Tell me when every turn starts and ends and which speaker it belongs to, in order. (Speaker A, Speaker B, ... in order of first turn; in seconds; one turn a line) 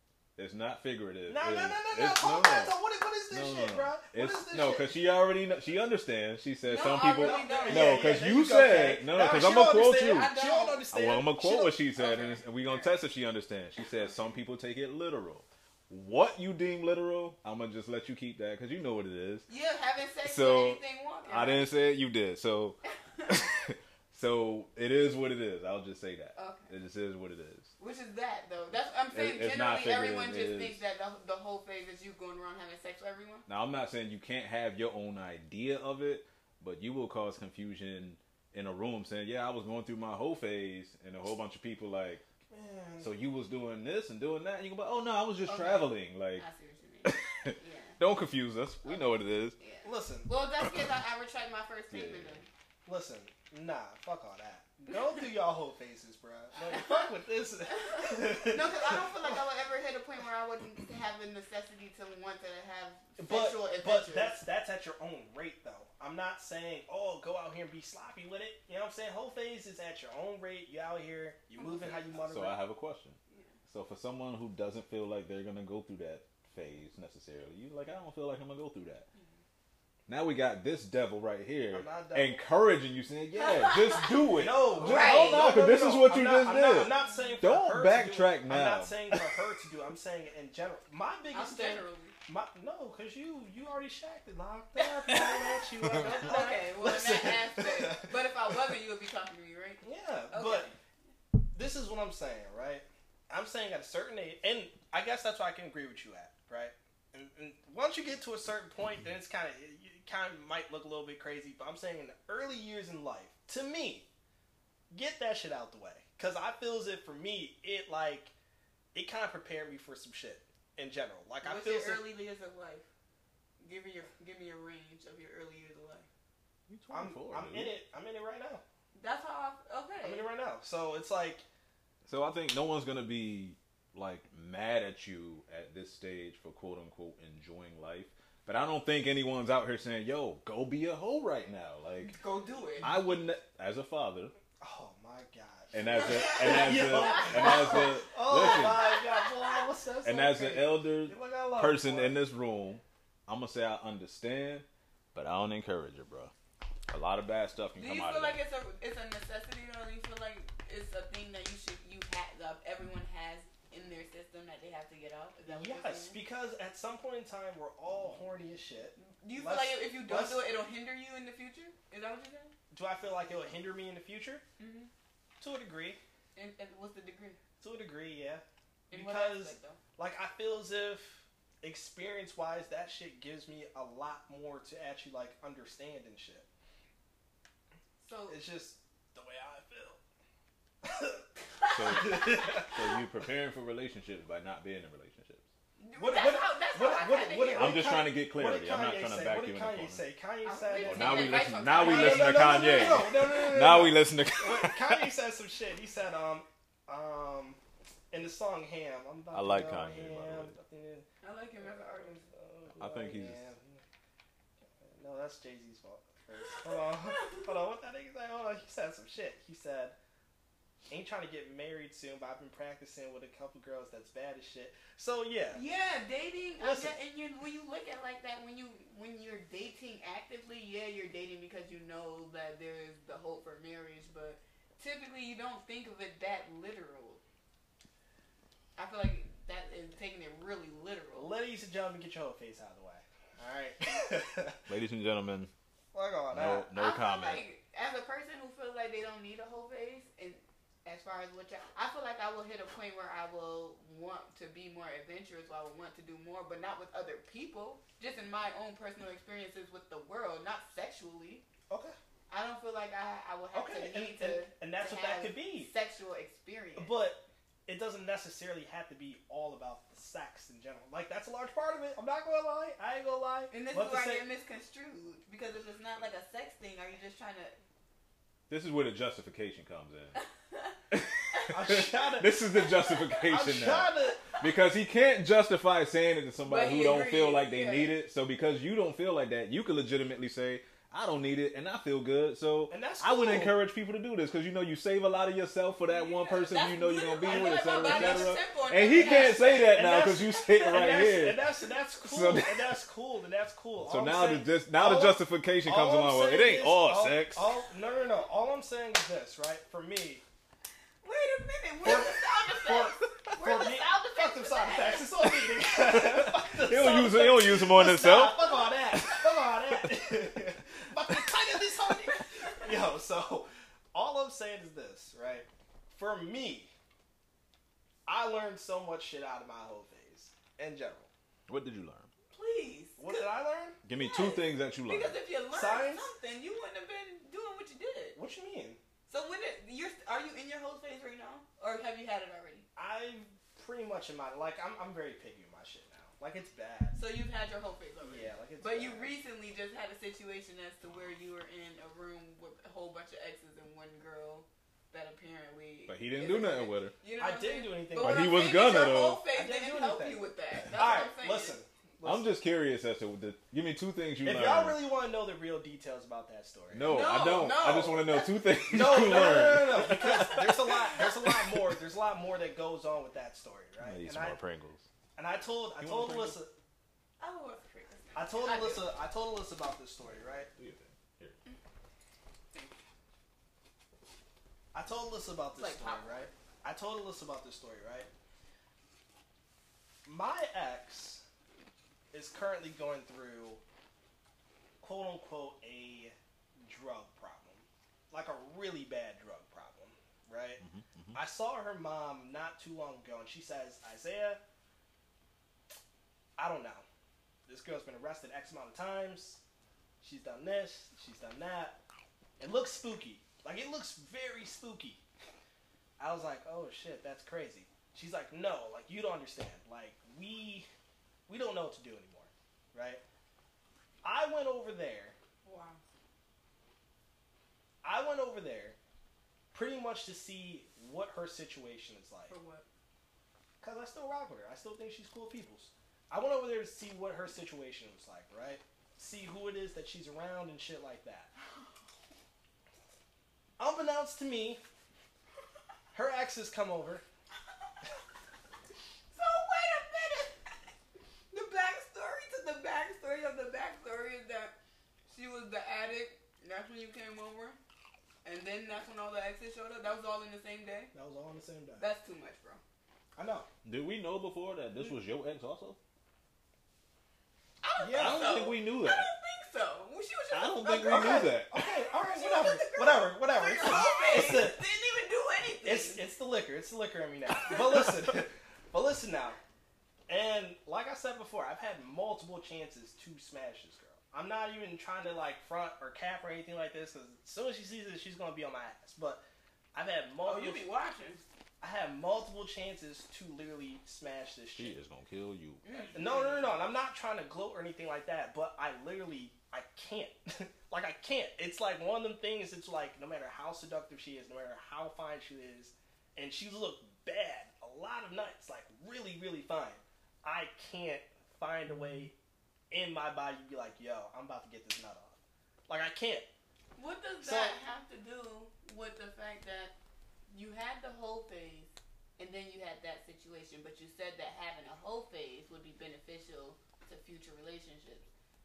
Speaker A: 0.4-2.8
Speaker B: 1.3-4.9
Speaker A: 3.3-10.3
Speaker C: 6.7-8.0
Speaker B: 6.7-11.8
Speaker C: 10.1-10.9
Speaker A: 10.9-19.5
Speaker C: 11.9-13.0
Speaker C: 19.5-21.7
Speaker A: 20.2-27.7
Speaker C: 26.4-26.7
Speaker C: 27.8-33.5
Speaker A: 29.1-30.8
Speaker A: 33.5-42.2
Speaker B: 42.5-43.1
Speaker A: 43.0-46.5
Speaker C: 45.5-48.0
Speaker A: 47.0-49.6
Speaker C: 49.6-52.5
Speaker B: 49.8-50.3
Speaker A: 51.9-52.4
Speaker B: 52.9-59.4
Speaker C: 57.9-64.4
Speaker B: 63.2-72.6
Speaker C: 71.6-72.2
Speaker A: 72.2-73.2
Speaker A: 73.7-79.1
Speaker A: 80.1-89.3
Speaker B: 81.7-82.4
Speaker C: 83.4-84.2
Speaker B: 84.3-98.2
Speaker C: 84.8-85.5
Speaker C: 87.1-87.4
Speaker C: 91.3-92.1
Speaker C: 94.8-100.7
Speaker B: 99.8-100.7
Speaker B: 101.5-114.1
Speaker B: 114.9-118.3
Speaker B: 118.9-122.1
Speaker C: 121.4-122.9
Speaker C: 123.6-126.1
Speaker A: 126.7-127.8
Speaker B: 126.9-128.6
Speaker C: 128.9-130.2
Speaker B: 130.0-131.4
Speaker A: 132.1-142.2
Speaker C: 142.0-142.9
Speaker A: 142.8-144.3
Speaker B: 144.6-152.2
Speaker A: 145.7-148.9
Speaker A: 150.0-156.3
Speaker A: 156.9-158.4
Speaker C: 157.8-166.2
Speaker B: 165.5-170.4
Speaker C: 169.0-172.5
Speaker B: 172.7-174.4
Speaker C: 174.6-174.9
Speaker B: 175.4-176.0
Speaker C: 176.3-177.4
Speaker B: 177.6-186.5
Speaker C: 178.9-179.8
Speaker C: 188.0-188.4
Speaker B: 188.3-190.0
Speaker B: 190.8-191.2
Speaker C: 191.6-192.6
Speaker A: 191.7-195.4
Speaker B: 191.9-192.9
Speaker C: 195.8-197.9
Speaker B: 195.9-207.6
Speaker A: 197.5-200.0
Speaker C: 200.4-203.1
Speaker A: 200.8-205.1
Speaker B: 208.1-211.1
Speaker A: 209.3-210.5
Speaker C: 211.2-212.2
Speaker B: 211.6-213.8
Speaker A: 212.8-213.5
Speaker B: 214.8-219.9
Speaker C: 217.1-217.4
Speaker B: 220.9-225.6
Speaker C: 225.5-237.2
Speaker B: 226.6-226.9
Speaker C: 238.8-241.3
Speaker B: 241.1-244.6
Speaker A: 244.7-245.5
Speaker B: 245.9-246.7
Speaker A: 246.3-247.4
Speaker C: 246.7-261.4
Speaker B: 261.7-261.9
Speaker C: 262.3-267.0
Speaker B: 263.5-265.7
Speaker B: 266.8-274.2
Speaker C: 273.5-277.6
Speaker A: 278.5-280.2
Speaker C: 280.1-280.7
Speaker A: 280.9-301.5
Speaker B: 281.5-282.4
Speaker C: 282.6-283.2
Speaker B: 283.3-284.2
Speaker C: 286.4-287.9
Speaker B: 292.7-293.7
Speaker C: 295.9-299.8
Speaker B: 297.2-310.2
Speaker A: 302.0-302.8
Speaker A: 303.8-307.5
Speaker C: 311.0-315.4
Speaker B: 311.8-326.7
Speaker A: 315.7-320.1
Speaker C: 322.1-322.6
Speaker B: 328.1-331.1
Speaker A: 331.5-332.1
Speaker C: 332.3-333.3
Speaker B: 333.0-333.8
Speaker A: 333.9-335.2
Speaker C: 333.9-338.2
Speaker B: 335.5-336.1
Speaker B: 338.1-338.8
Speaker C: 339.1-342.7
Speaker B: 342.8-347.0
Speaker C: 346.9-361.6
Speaker B: 348.0-349.1
Speaker A: 355.9-356.9
Speaker B: 357.2-358.4
Speaker A: 358.0-359.2
Speaker B: 359.3-362.3
Speaker A: 362.0-364.8
Speaker B: 364.2-366.9
Speaker A: 366.7-371.6
Speaker C: 366.9-368.4
Speaker B: 368.7-374.4
Speaker A: 373.8-374.9
Speaker B: 375.1-376.5
Speaker A: 375.8-376.4
Speaker C: 377.2-378.9
Speaker B: 378.1-380.5
Speaker A: 380.6-381.4
Speaker B: 384.7-388.1
Speaker C: 385.6-386.2
Speaker B: 390.0-391.2
Speaker B: 392.1-393.6
Speaker B: 394.8-400.6
Speaker A: 400.6-401.2
Speaker B: 401.1-404.4
Speaker B: 406.4-406.8
Speaker B: 407.5-409.4
Speaker B: 410.0-411.8
Speaker B: 412.4-415.0
Speaker B: 416.0-420.7
Speaker B: 421.3-423.0
Speaker B: 424.0-425.1
Speaker C: 425.4-425.8
Speaker B: 427.8-428.8
Speaker B: 429.5-432.4
Speaker C: 432.3-432.6
Speaker B: 433.6-441.3
Speaker B: 443.6-444.6
Speaker B: 445.9-447.0
Speaker C: 449.1-450.4
Speaker C: 451.3-454.5
Speaker C: 455.1-457.6
Speaker C: 458.2-460.9
Speaker B: 460.9-461.9
Speaker C: 461.8-462.6
Speaker B: 463.1-463.5
Speaker A: 463.6-465.8
Speaker C: 467.6-476.1
Speaker B: 467.8-468.5
Speaker A: 467.9-469.1
Speaker A: 470.3-471.5
Speaker B: 470.7-474.6
Speaker B: 475.6-479.4
Speaker B: 480.1-489.2
Speaker B: 489.7-490.6
Speaker C: 490.2-491.2
Speaker B: 491.6-494.7
Speaker A: 494.5-495.9
Speaker C: 495.6-496.5
Speaker B: 495.9-512.1
Speaker B: 512.7-516.3
Speaker C: 516.8-519.7
Speaker B: 517.2-517.6
Speaker C: 520.3-528.1